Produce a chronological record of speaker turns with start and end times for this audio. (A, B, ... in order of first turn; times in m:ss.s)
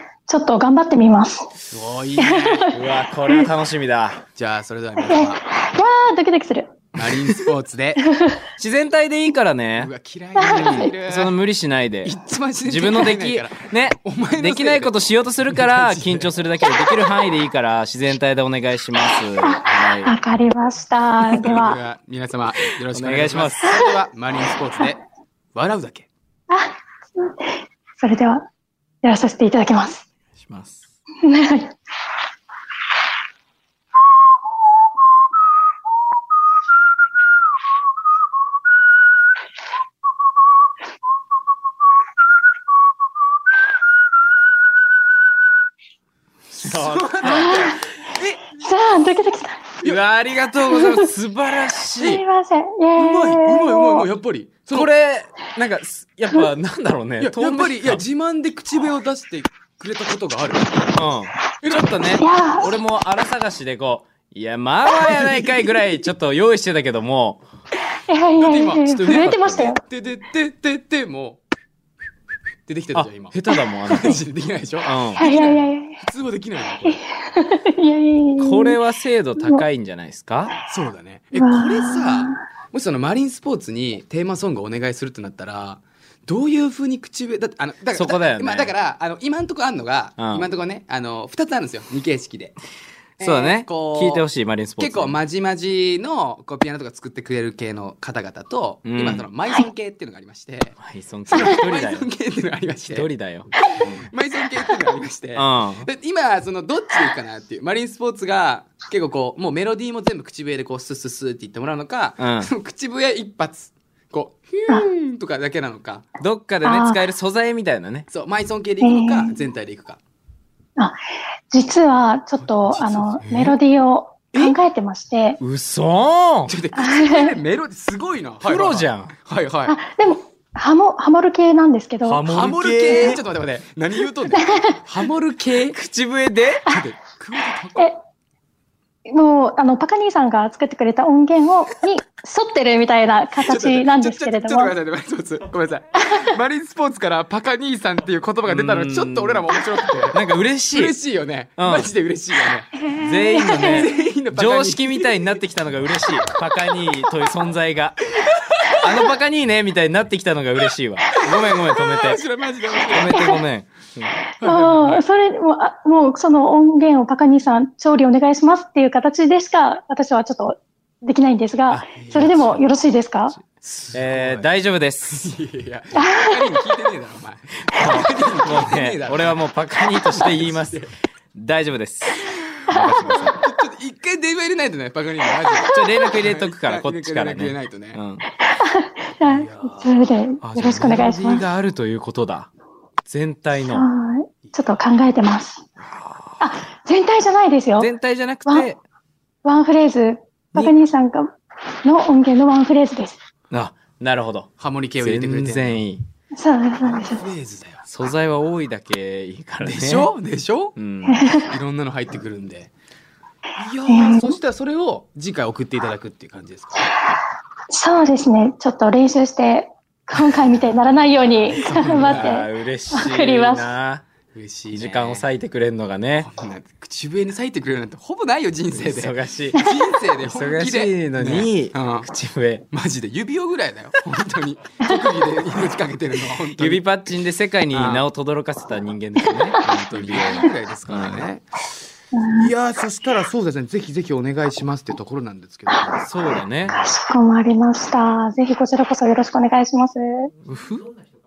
0:00.3-0:01.5 A
0:01.7-0:02.7 B
0:02.2-0:02.8 A
0:02.7-0:04.2 C
0:04.3-0:05.4 B
0:05.0-0:06.7 A
0:07.0-0:08.0 B
0:08.0-0:08.4 A
0:08.6-0:20.1 C
0:09.8-0:11.3 B
0:10.4-0:10.9 A
0:12.0-0:16.3 B
0:19.4-0:21.8 A
0:21.4-0:25.0 B
0:22.9-0:23.7 C
0:23.6-0:24.0 A
0:25.5-0:26.1 B
0:26.5-0:28.4 A
0:29.0-0:30.0 A
0:30.4-0:30.8 C
0:31.2-0:31.7 A
0:46.5-0:47.8 C
0:46.6-0:48.8 B
0:47.2-0:47.8 A
0:48.5-0:49.7 A
0:49.8-0:52.2 C
0:50.7-0:51.1 A
0:52.0-0:54.1 A
0:53.0-0:54.9 B
0:54.7-0:58.0 C
0:57.2-1:00.8 B
1:01.0-1:07.4 C
1:01.6-1:02.2 B
1:02.1-1:02.7 A
1:04.9-1:05.8 B
1:08.1-1:09.8 A
1:08.3-1:11.4 B
1:08.9-1:09.7 C
1:12.7-1:17.0 B
1:12.9-1:14.2 C
1:14.8-1:15.2 C
1:15.2-1:16.0 A
1:16.8-1:18.8 A
1:18.4-1:20.5 C
1:20.7-1:32.6 B
1:21.3-1:22.4 A
1:27.9-1:28.7 C
1:30.2-1:30.5 C
1:33.2-1:34.3 B
1:33.2-1:35.2 C
1:34.8-1:40.8 B
1:38.8-1:39.3 C
1:40.8-1:42.1 C
1:41.3-1:43.1 B
1:42.9-1:44.1 C
1:43.7-1:56.0 B
1:45.3-1:45.9 C
1:52.2-1:52.5 C
1:56.2-1:58.1 C
1:56.6-1:57.0 A
1:58.1-2:00.0 B
1:58.8-1:59.4 A
2:01.5-2:05.4 A
2:02.4-2:03.6 B
2:05.4-2:06.5 C
2:06.5-2:09.8 B
2:06.7-2:07.3 A
2:08.4-2:09.1 C
2:09.7-2:12.2 A
2:12.0-2:13.2 C
2:12.2-2:15.8 B
2:12.9-2:13.2 A
2:14.3-2:14.8 A
2:15.7-2:16.7 C
2:16.6-2:17.9 B
2:19.1-2:24.7 A
2:23.4-2:30.2 B
2:28.4-2:29.5 C
2:30.1-2:30.9 C
2:30.7-2:32.7 B
2:31.6-2:31.9 C
2:32.8-2:33.9 A
2:33.0-2:38.2 C
2:33.5-2:35.3 B
2:38.2-2:39.1 B
2:38.8-2:42.2 C
2:41.1-2:43.4 B
2:42.9-2:44.2 C
2:44.4-2:45.0 B
2:44.4-2:53.4 A
2:51.7-2:52.5 C
2:51.9-2:52.5 B
2:53.6-2:54.5 B
2:53.9-2:55.3 C
2:55.0-2:59.4 B
2:56.0-2:56.6 A
2:57.7-3:03.4 C
3:00.0-3:00.9 B
3:02.7-3:03.3 A
3:03.0-3:08.0 B
3:05.6-3:08.2 C
3:08.4-3:11.4 A
3:09.2-3:09.9 B
3:10.4-3:12.5 C
3:13.1-3:13.8 C
3:13.6-3:15.6 A
3:15.8-3:16.4 C
3:16.4-3:17.9 A
3:17.8-3:18.8 C
3:19.4-3:21.3 A
3:21.8-3:23.2 A
3:23.5-3:24.5 C
3:24.6-3:25.8 B
3:25.0-3:26.0 C
3:26.4-3:27.2 A
3:26.8-3:27.9 B
3:27.9-3:30.1 C
3:29.6-3:30.8 B
3:30.8-3:31.2 C
3:31.1-3:31.5 A
3:31.4-3:32.7 B
3:33.6-3:37.0 B
3:33.9-3:34.4 A
3:37.7-3:43.6 A
3:41.5-3:42.4 B
3:41.8-3:44.0 C
3:44.3-3:45.2 B
3:44.7-3:46.3 C
3:46.2-3:52.1 B
3:48.8-3:49.6 C
3:50.2-3:52.6 C
3:52.7-3:56.8 B
3:56.6-4:01.3 C
3:57.7-3:58.0 B
3:59.9-4:01.4 B
4:02.1-4:02.5 A
4:02.3-4:06.1 B
4:06.0-4:06.8 C
4:06.7-4:10.3 A
4:10.4-4:10.9 C